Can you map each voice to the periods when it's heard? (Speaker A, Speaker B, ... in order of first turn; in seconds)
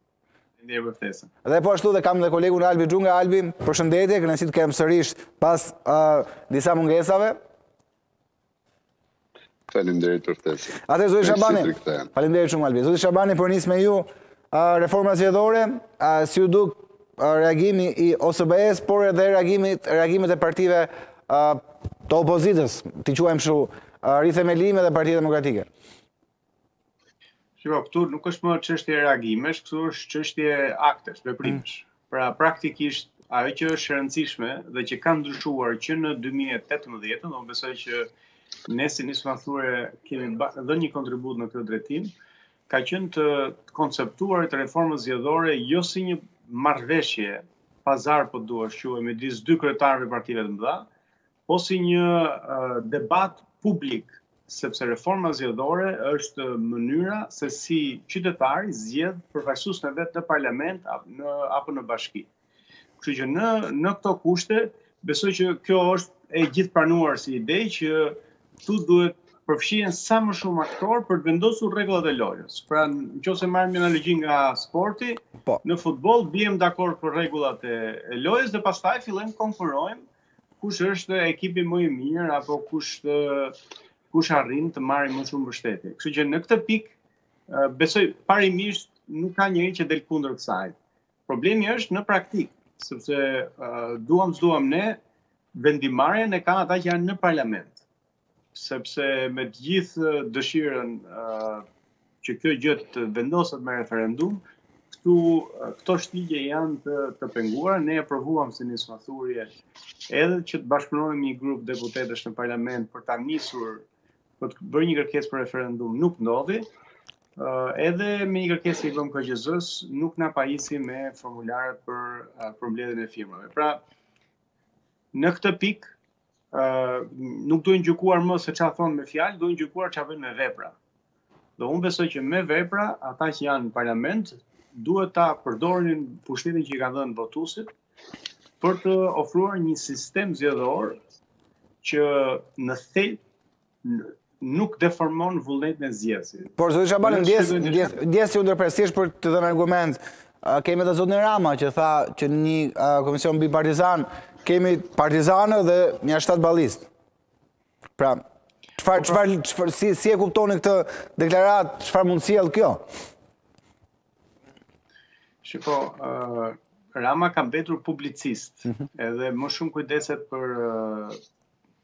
Speaker A: 0.6-1.3, 27.6-38.1, 38.7-42.1, 42.7-50.9, 51.5-62.3, 63.0-80.0, 80.6-83.6, 84.1-86.9, 87.5-90.7, 91.3-95.0, 95.5-97.8, 98.5-101.6, 102.2-104.4, 105.0-109.5, 110.1-113.8, 114.4-116.7, 117.4-123.8, 125.1-125.9, 126.5-130.7, 131.6-137.7, 138.6-141.0, 141.8-143.2, 143.8-147.9, 165.4-171.2
Speaker B: 1.4-7.4, 10.8-25.7, 146.6-156.9, 158.8-162.8
Speaker C: 9.7-12.1